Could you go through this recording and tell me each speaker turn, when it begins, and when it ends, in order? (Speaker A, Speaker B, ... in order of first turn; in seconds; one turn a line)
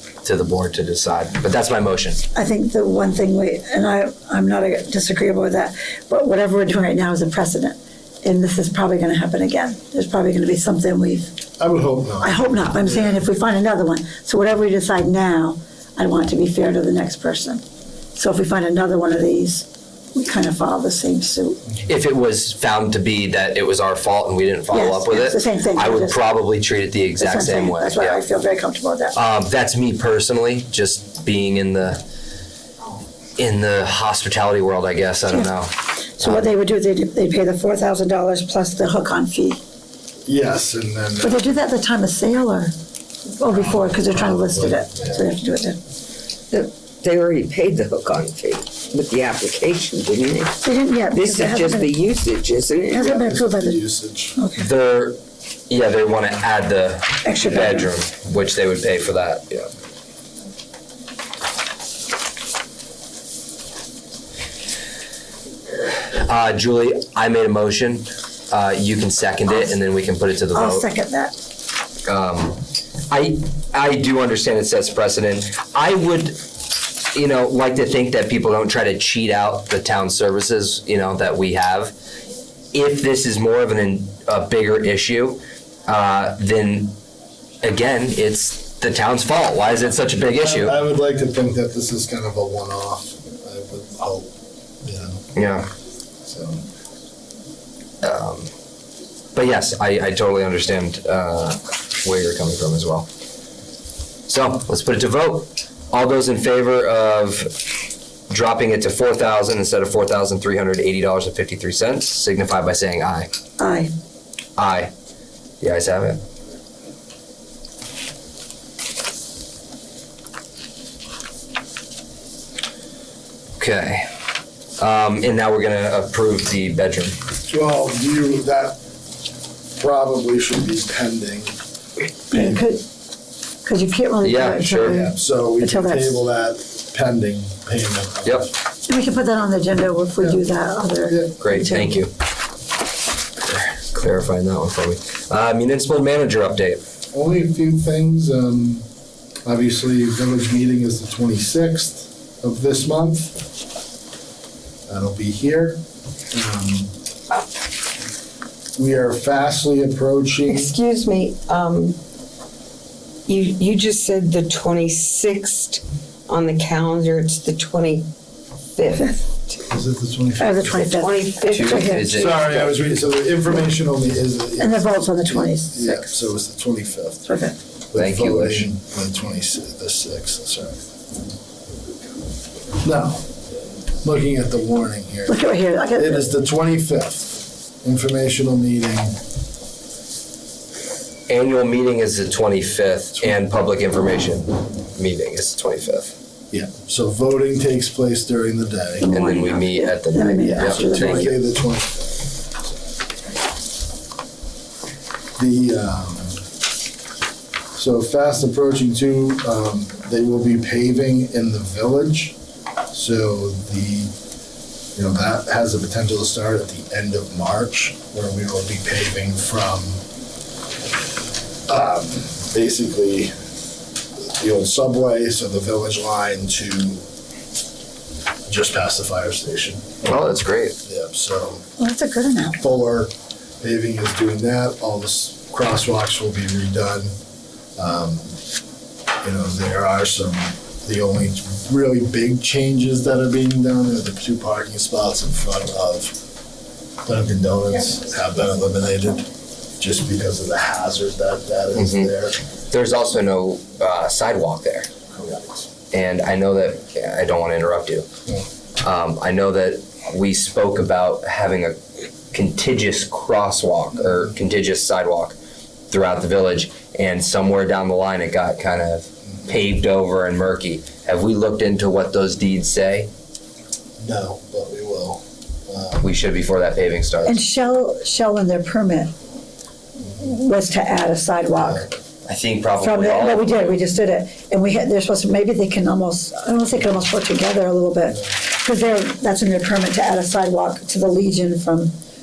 Speaker A: 0.2-2.2
Speaker B: 2.3-11.3
Speaker C: 11.6-13.2
Speaker B: 12.2-17.6
Speaker B: 18.1-21.6
Speaker A: 21.9-28.2
Speaker B: 24.7-26.2
Speaker B: 27.2-29.2
Speaker A: 29.1-32.0
Speaker A: 33.4-36.5
Speaker B: 36.2-39.6
Speaker C: 40.2-41.5
Speaker B: 41.2-42.7
Speaker B: 43.3-45.8
Speaker C: 43.5-45.2
Speaker D: 46.5-50.6
Speaker B: 50.6-51.9
Speaker D: 51.1-53.1
Speaker B: 52.9-53.8
Speaker C: 53.0-54.4
Speaker B: 54.4-54.6
Speaker A: 54.5-59.7
Speaker B: 57.2-57.9
Speaker C: 57.5-57.8
Speaker A: 66.1-70.8
Speaker B: 70.5-71.3
Speaker A: 72.0-76.4
Speaker A: 77.1-81.9
Speaker A: 82.7-87.0
Speaker A: 87.6-90.8
Speaker C: 90.3-95.2
Speaker A: 95.3-95.7
Speaker C: 96.2-96.6
Speaker A: 98.0-98.5
Speaker A: 99.3-103.1
Speaker A: 104.3-107.5
Speaker A: 108.3-113.3
Speaker B: 113.6-113.9
Speaker A: 114.6-114.9
Speaker A: 115.6-116.2
Speaker A: 123.6-124.1
Speaker A: 124.8-127.2
Speaker C: 127.5-128.8
Speaker C: 129.8-131.5
Speaker C: 132.3-132.6
Speaker B: 132.3-132.8
Speaker B: 133.6-136.2
Speaker A: 134.2-135.0
Speaker C: 134.8-138.6
Speaker B: 138.9-142.0
Speaker C: 141.1-141.4
Speaker A: 141.4-142.1
Speaker A: 143.4-146.8
Speaker C: 147.1-148.8
Speaker C: 149.4-153.4
Speaker C: 154.9-156.9
Speaker C: 158.8-160.7
Speaker D: 160.5-162.0
Speaker D: 163.3-168.1
Speaker D: 168.7-169.6
Speaker C: 169.7-170.9
Speaker B: 170.4-172.3
Speaker D: 170.7-172.7
Speaker A: 171.5-172.5
Speaker C: 172.1-177.3
Speaker B: 174.6-176.2
Speaker B: 177.3-177.5
Speaker C: 177.9-180.8
Speaker A: 177.9-178.7
Speaker C: 182.8-183.3
Speaker C: 184.0-189.2
Speaker B: 185.3-186.3
Speaker A: 191.3-196.1
Speaker C: 196.5-199.1
Speaker B: 199.0-201.3
Speaker A: 199.1-201.3
Speaker C: 200.5-202.1
Speaker C: 205.4-206.4
Speaker C: 207.7-212.3
Speaker C: 212.9-214.1
Speaker C: 214.9-220.0
Speaker C: 221.7-223.3
Speaker C: 224.2-227.0
Speaker C: 228.5-229.9
Speaker A: 230.0-230.8
Speaker C: 230.8-231.6
Speaker B: 231.8-232.6
Speaker C: 232.6-237.1
Speaker C: 237.8-238.3
Speaker C: 239.2-246.2
Speaker C: 247.0-252.3
Speaker A: 251.8-252.1
Speaker A: 252.7-254.9
Speaker A: 255.9-258.1
Speaker A: 258.8-261.8
Speaker A: 262.3-265.4
Speaker A: 265.9-273.1
Speaker C: 274.0-276.1
Speaker A: 276.0-277.4
Speaker B: 277.2-279.1
Speaker B: 280.2-281.9
Speaker C: 281.6-281.9
Speaker A: 282.2-283.8
Speaker B: 282.8-291.9